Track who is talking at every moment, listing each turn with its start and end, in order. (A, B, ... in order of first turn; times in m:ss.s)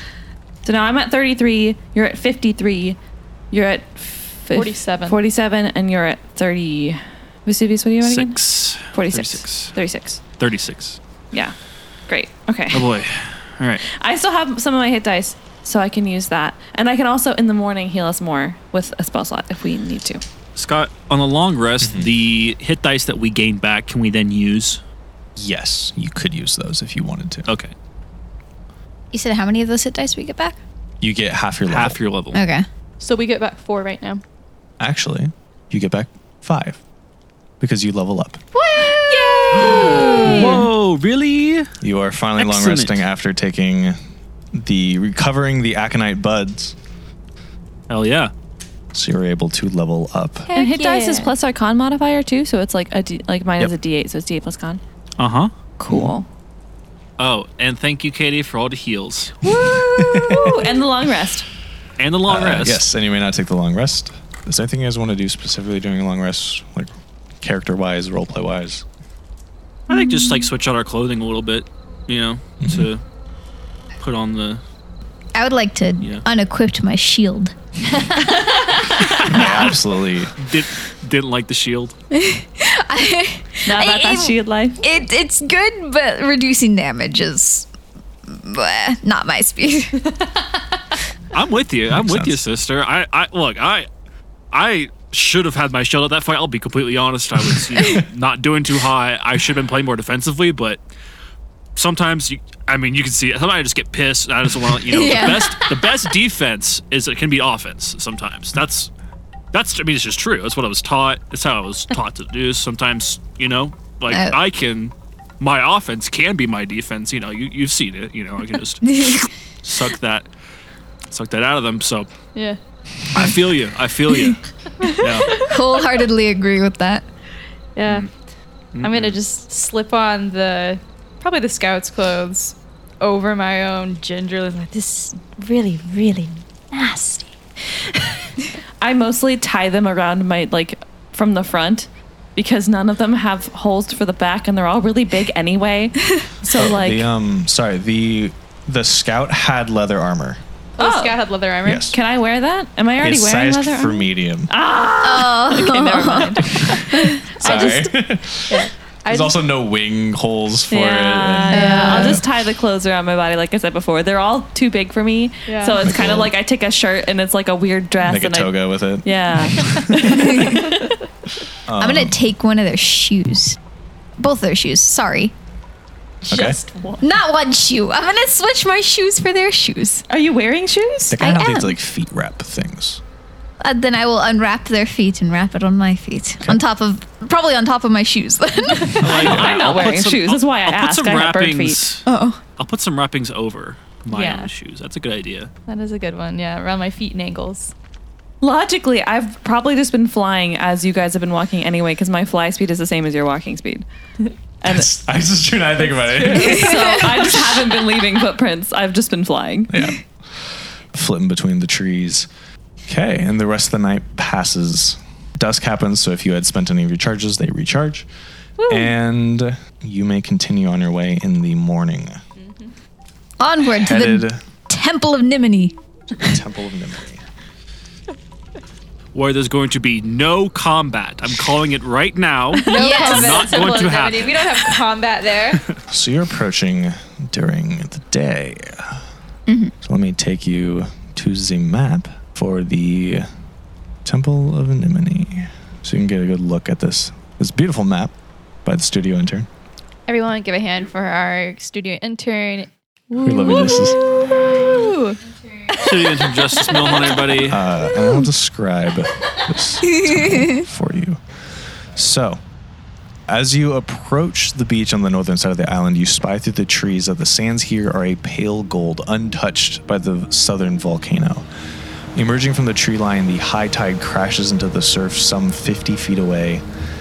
0:00.6-0:03.0 A
0:03.5-0:08.4 A
0:04.5-0:05.2 B
0:08.0-0:09.7 C
0:08.9-0:10.2 A
0:10.4-0:11.0 C
0:12.1-0:12.9 A
0:12.7-0:13.8 C
0:13.8-0:20.2 A
0:20.6-0:24.8 C
0:21.8-0:22.1 D
0:25.4-0:27.4 D
0:27.5-0:27.7 C
0:29.1-0:30.6 E
0:31.0-0:32.0 D
0:31.7-0:32.4 C
0:32.3-0:32.6 E
0:33.0-0:34.2 B
0:34.8-0:36.8 D
0:37.6-0:38.4 D
0:38.5-0:40.5 E
0:38.8-0:40.6 B
0:39.7-0:41.7 C
0:41.8-0:44.0 D
0:42.4-0:43.0 C
0:44.5-0:46.7 D
0:47.9-0:48.3 C
0:48.9-0:50.5 D
0:50.5-0:51.3 B
0:50.5-0:54.8 A
0:55.2-0:55.5 C
0:55.8-0:56.3 A
0:55.9-0:56.1 D
0:57.2-0:59.4 C
0:59.4-1:01.4 A
0:59.7-1:00.6 D
1:02.0-1:02.8 C
1:02.3-1:08.8 D
1:09.9-1:13.0 C
1:09.9-1:10.2 A
1:12.6-1:12.9 D
1:14.0-1:14.6 C
1:15.3-1:17.5 E
1:19.2-1:20.3 D
1:19.4-1:19.7 C
1:20.4-1:21.9 C
1:22.1-1:27.7 E
1:23.6-1:24.8 A
1:28.3-1:30.0 E
1:31.3-1:33.9 C
1:31.9-1:32.4 D
1:34.5-1:40.8 C
1:41.8-1:48.9 C
1:44.9-1:45.8 E
1:49.5-2:00.3 C
1:54.1-1:54.4 E
1:58.8-1:59.2 E
2:01.1-2:02.1 C
2:03.1-2:04.4 C
2:04.8-2:07.0 E
2:05.0-2:05.4 C
2:07.8-2:08.1 B
2:08.7-2:09.2 C
2:08.8-2:17.3 B
2:18.8-2:27.1 A
2:26.5-2:30.4 D
2:30.8-2:31.8 B
2:30.8-2:31.2 A
2:31.6-2:32.0 D
2:31.9-2:37.9 A
2:33.0-2:34.5 D
2:35.0-2:37.2 E
2:36.5-2:37.8 B
2:37.4-2:42.2 D
2:38.5-2:39.4 B
2:40.7-2:50.8 A
2:41.5-2:42.2 E
2:41.5-2:42.1 B
2:45.5-2:45.9 B
2:45.8-2:46.3 D
2:48.0-2:50.4 D
2:49.6-2:50.6 B
2:50.2-2:50.6 E
2:51.7-2:52.2 D
2:51.8-2:53.6 E
2:54.2-2:55.3 E
2:56.2-2:57.0 B
2:56.3-2:56.6 D
2:57.0-3:00.0 E
3:00.1-3:00.8 B
3:00.2-3:01.0 A
3:01.1-3:03.0 D
3:01.2-3:01.8 E
3:03.6-3:09.3 E
3:09.0-3:11.9 A
3:09.0-3:12.0 C
3:12.0-3:12.4 E
3:12.6-3:15.5 C
3:14.1-3:14.5 B
3:15.7-3:17.7 B
3:18.4-3:23.8 A
3:24.6-3:24.9 A
3:24.6-3:26.7 D
3:25.8-3:27.4 B
3:26.2-3:29.7 A
3:29.7-3:30.0 D
3:30.9-3:32.3 D
3:32.8-3:38.1 D
3:38.6-3:38.9 A
3:38.7-3:42.2 D
3:42.4-3:42.7 B
3:43.4-3:45.7 E
3:43.8-3:44.4 D
3:46.2-3:47.2 D
3:49.1-3:54.8 C
3:52.7-3:55.6 B
3:52.7-3:53.8 E
3:55.9-3:59.0 D
3:59.5-3:59.7 E
3:59.8-4:03.3 D
4:04.0-4:08.1 D
4:08.6-4:09.5 D
4:10.1-4:17.4 B
4:13.2-4:14.0 D
4:13.4-4:13.9 A
4:15.8-4:17.6 C
4:17.5-4:21.2 D
4:19.8-4:20.6 E
4:22.0-4:22.4 D
4:23.3-4:31.4 D
4:32.1-4:36.6 D